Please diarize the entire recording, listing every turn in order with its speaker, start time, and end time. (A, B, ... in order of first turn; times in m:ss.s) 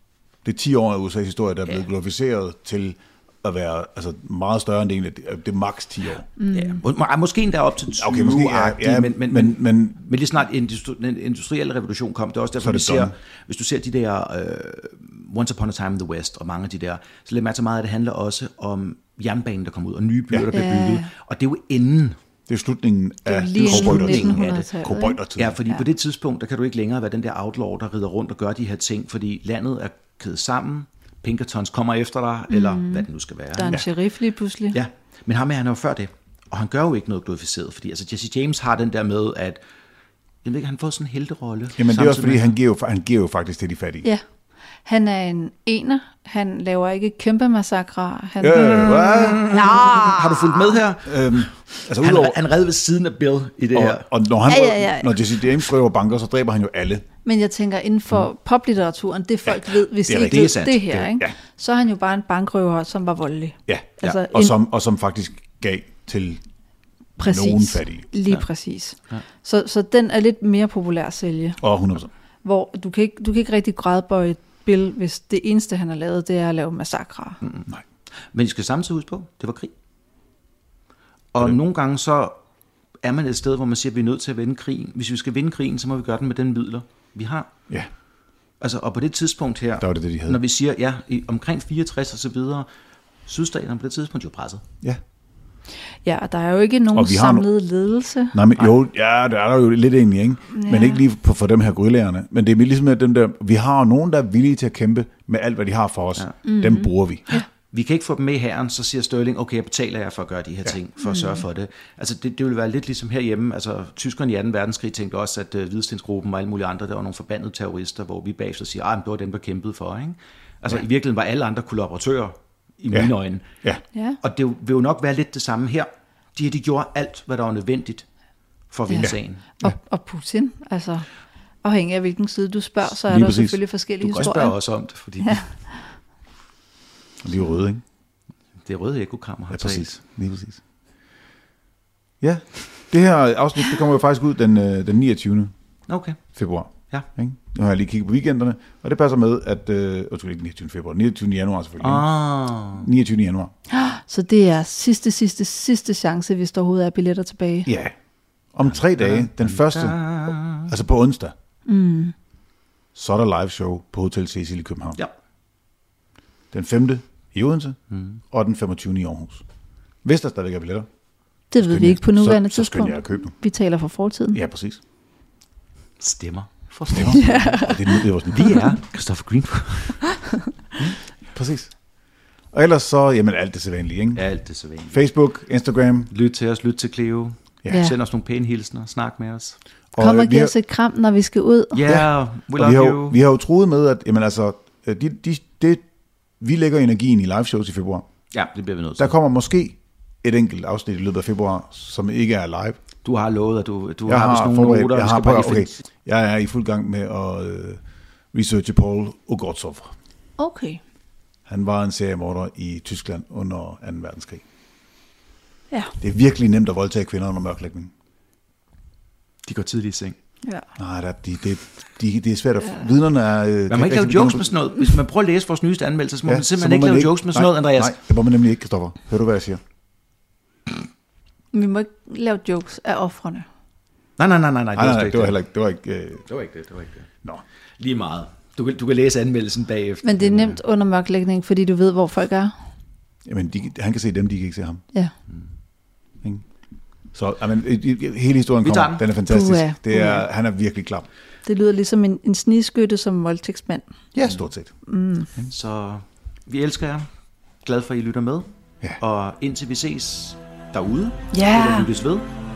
0:00.4-0:06.3 A
0:06.4-0:06.8 B
0:06.5-0:22.2 C
0:08.0-0:10.0 A
0:12.6-0:13.1 A
0:20.5-0:21.1 B
0:22.5-0:25.6 A
0:23.2-0:25.2 B
0:23.6-0:24.7 C
0:25.3-0:33.8 C
0:32.5-0:34.8 B
0:34.7-0:39.6 C
0:40.4-0:42.5 C
0:41.8-0:44.0 A
0:44.8-0:50.8 B
0:48.4-0:49.5 A
0:48.9-0:54.0 C
0:51.0-0:52.4 A
0:53.7-0:57.0 A
0:54.5-0:55.2 B
0:57.2-1:04.5 B
0:59.5-1:00.5 A
1:00.1-1:01.2 C
1:03.7-1:06.4 A
1:07.2-1:11.6 B
1:07.2-1:08.0 A
1:11.6-1:12.1 A
1:12.4-1:17.4 B
1:17.4-1:17.7 C
1:18.3-1:19.7 C
1:21.3-1:22.4 C
1:23.0-1:27.5 C
1:28.6-1:32.7 C
1:29.8-1:30.4 A
1:33.2-1:34.6 C
1:36.0-1:38.4 B
1:36.9-1:37.5 A
1:38.3-1:47.2 A
1:40.5-1:41.0 B
1:46.4-1:47.4 B
1:47.3-2:03.5 C
1:51.0-1:51.4 B
2:02.9-2:03.8 A
2:03.9-2:04.2 B
2:04.2-2:08.0 C
2:08.7-2:09.5 C
2:08.9-2:11.1 B
2:09.0-2:09.7 A
2:11.6-2:14.6 B
2:13.0-2:13.6 A
2:14.0-2:15.4 C
2:15.2-2:15.9 B
2:17.2-2:17.8 A
2:18.6-2:20.0 C
2:19.5-2:20.6 A
2:22.2-2:25.5 A
2:25.9-2:26.2 C
2:26.3-2:32.0 A
2:31.8-2:32.8 C
2:32.7-2:33.5 A
2:33.7-2:37.7 B
2:37.6-2:37.9 A
2:38.5-2:40.0 A
2:38.6-2:40.7 C
2:40.6-2:41.3 A
2:41.6-2:42.1 B
2:42.9-2:45.0 A
2:46.5-2:47.8 A
2:47.9-2:48.2 C
2:48.3-2:49.4 A
2:50.0-2:50.9 A
2:51.5-2:54.4 B
2:51.6-2:53.3 A
2:54.3-2:54.8 A
2:56.0-2:57.5 C
2:56.9-2:58.7 A
2:57.0-2:58.0 B
2:58.3-3:00.0 C
3:00.8-3:01.7 A
3:02.5-3:04.2 A
3:04.1-3:05.0 C
3:04.9-3:06.1 A
3:06.1-3:09.6 C
3:07.7-3:08.0 B
3:09.9-3:10.5 A
3:10.0-3:11.8 B
3:11.7-3:13.2 C
3:11.9-3:15.8 A
3:16.4-3:18.0 A
3:18.3-3:19.1 C
3:19.0-3:22.8 A
3:23.0-3:25.7 C
3:24.0-3:27.8 A
3:28.3-3:29.9 A
3:30.4-3:30.8 B
3:31.5-3:34.4 A
3:36.0-3:37.9 A
3:39.4-3:40.2 C
3:40.8-3:44.6 A
3:43.7-3:48.0 C
3:46.2-3:49.6 A
3:51.5-3:53.5 B
3:54.2-3:55.4 C
3:54.8-3:56.3 A
3:56.3-3:57.1 C
3:57.8-4:00.6 C
4:00.0-4:02.5 B
4:03.2-4:04.8 A
4:07.1-4:11.1 A
4:08.6-4:09.0 C
4:09.2-4:10.2 B
4:11.4-4:13.9 B
4:14.1-4:14.7 A
4:14.8-4:15.3 B
4:15.4-4:17.1 C
4:17.6-4:22.2 C
4:21.3-4:21.9 B